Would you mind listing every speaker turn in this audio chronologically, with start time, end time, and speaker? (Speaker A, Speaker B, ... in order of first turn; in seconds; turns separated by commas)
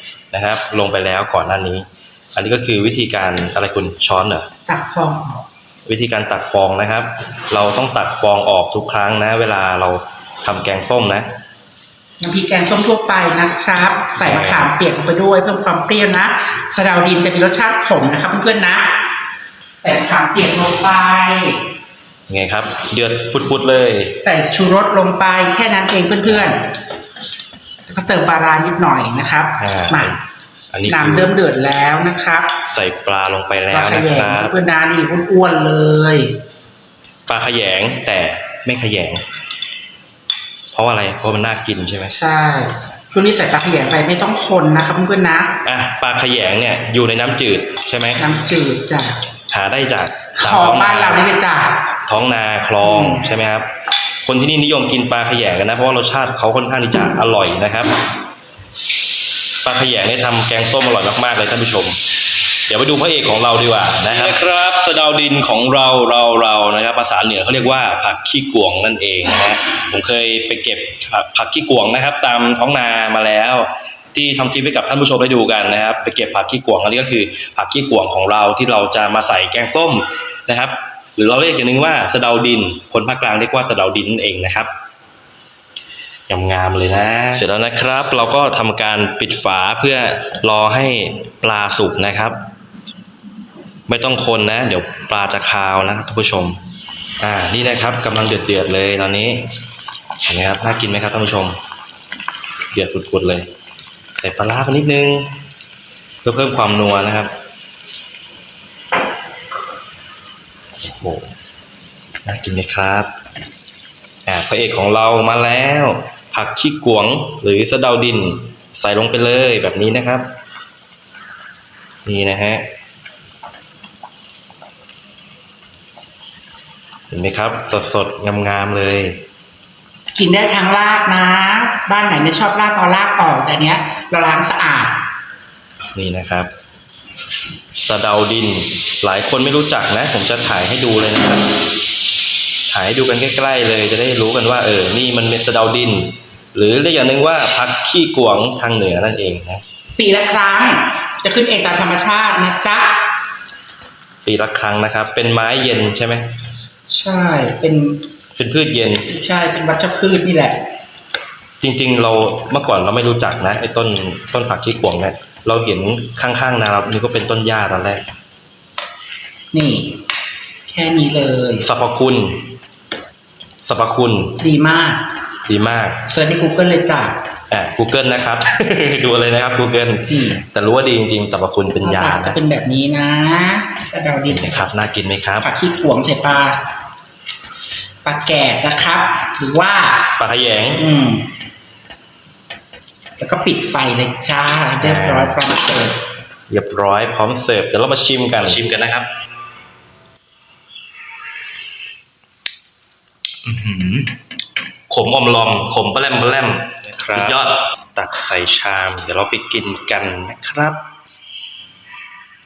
Speaker A: 0.3-4.5, Speaker B: 4.7-5.4, Speaker A: 5.9-11.3, Speaker B: 12.2-18.9, Speaker A: 14.2-14.7, Speaker B: 19.8-21.6, Speaker A: 22.3-24.2, Speaker B: 24.2-26.6, Speaker B: 27.9-30.2, Speaker A: 29.6-30.2, Speaker A: 30.7-31.3, Speaker B: 30.9-32.5, Speaker A: 32.7-34.5, Speaker B: 33.7-36.3, Speaker A: 37.3-39.2, Speaker A: 40.7-42.1, Speaker B: 42.1-45.5, Speaker A: 45.6-48.2, Speaker B: 48.2-49.2, Speaker A: 49.5-51.2, Speaker B: 50.4-51.8, Speaker A: 52.1-53.7, Speaker B: 52.8-53.2, Speaker A: 54.2-57.9, Speaker A: 59.6-62.0, Speaker A: 62.7-84.7, Speaker A: 86.3-92.4, Speaker A: 93.9-96.6, Speaker A: 97.2-99.5, Speaker A: 100.2-101.6, Speaker A: 102.7-103.5, Speaker A: 104.2-105.3, Speaker A: 106.2-107.3, Speaker A: 110.8-111.3, Speaker A: 112.2-113.1, Speaker A: 114.3-120.3, Speaker A: 122.1-122.6, Speaker A: 127.1-129.2, Speaker B: 130.2-135.0, Speaker A: 135.9-136.5, Speaker A: 137.8-141.5, Speaker A: 142.7-149.6, Speaker B: 150.0-153.0, Speaker A: 154.2-156.3, Speaker B: 156.9-158.0, Speaker A: 158.4-159.1, Speaker B: 159.1-160.6, Speaker A: 161.6-168.0, Speaker B: 169.5-170.0, Speaker B: 170.7-171.7, Speaker A: 171.6-172.5, Speaker A: 173.6-174.4, Speaker B: 174.4-175.0, Speaker A: 175.5-176.0, Speaker B: 176.1-177.2, Speaker A: 177.5-182.4, Speaker B: 180.1-180.4, Speaker B: 181.8-184.7, Speaker A: 184.3-185.5, Speaker B: 185.4-186.6, Speaker B: 188.1-190.1, Speaker A: 190.2-190.9, Speaker B: 190.8-191.3, Speaker B: 193.2-196.0, Speaker A: 194.8-195.4, Speaker A: 196.5-199.1, Speaker A: 203.4-204.1, Speaker A: 204.9-210.8